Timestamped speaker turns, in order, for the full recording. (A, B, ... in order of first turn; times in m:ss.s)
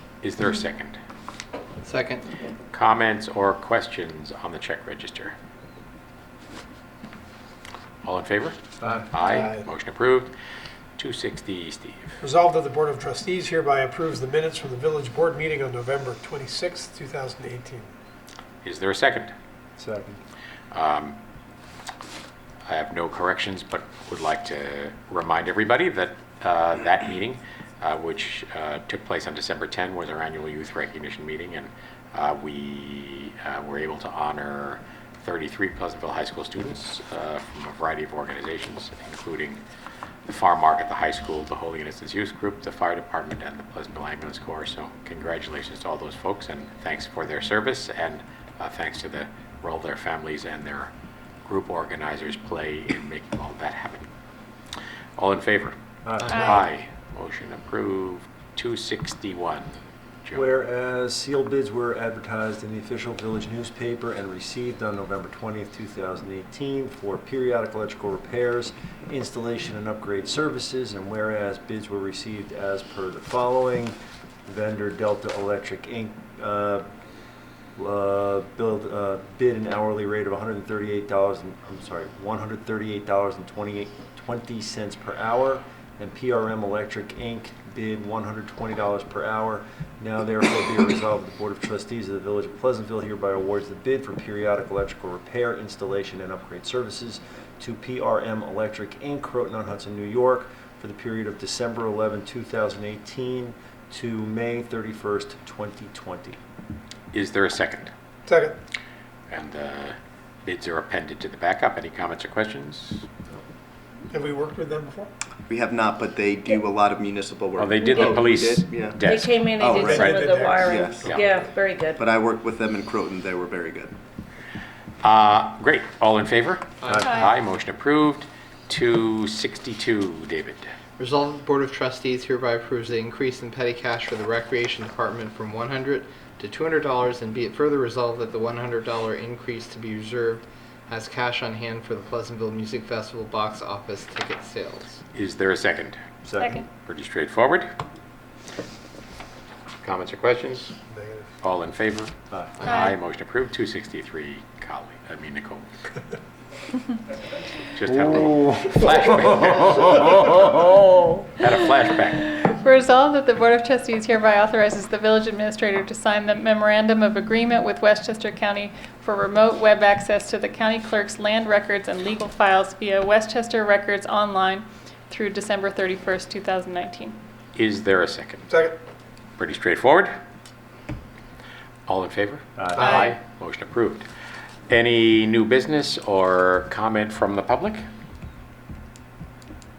0:00.2-0:01.0 A
0:01.8-0:02.3 B
0:02.7-0:05.4 A
0:08.0-0:10.3 A
0:09.2-0:09.6 C
0:11.0-0:12.2 A
0:12.2-0:17.9 C
0:18.6-0:19.3 A
0:19.8-0:20.2 D
0:20.7-0:21.2 A
0:22.7-0:39.6 A
0:40.3-0:50.9 A
0:51.4-0:54.1 A
0:55.2-0:55.8 A
0:56.0-0:56.4 D
0:56.2-0:56.6 B
0:56.3-0:56.6 E
0:56.3-0:59.7 A
1:00.2-1:00.5 A
1:00.3-1:16.8 D
1:17.8-1:46.4 D
1:47.1-1:47.9 A
1:48.2-1:48.6 C
1:49.3-1:53.1 A
1:54.1-1:55.1 C
1:55.5-2:01.2 F
1:57.6-2:00.2 A
1:59.0-2:02.0 G
1:59.7-2:00.9 C
2:00.9-2:01.3 A
2:01.8-2:04.0 F
2:05.0-2:10.7 A
2:06.8-2:07.2 B
2:07.0-2:07.3 E
2:11.0-2:25.0 B
2:25.1-2:26.0 A
2:26.2-2:26.6 D
2:26.4-2:26.7 E
2:26.8-2:27.7 A
2:29.8-2:30.7 A
2:30.9-2:31.2 C
2:31.4-2:35.6 A
2:32.3-2:32.6 D
2:32.6-2:32.9 B
2:37.8-2:40.6 A
2:37.9-2:39.8 D
2:40.7-2:41.0 D
2:41.4-2:42.2 A
2:42.4-2:57.2 E
2:57.6-2:58.5 A
2:58.5-2:58.8 C
2:59.4-3:00.1 A
3:01.9-3:04.1 A
3:02.6-3:02.9 D
3:02.8-3:03.1 E
3:04.7-3:07.8 A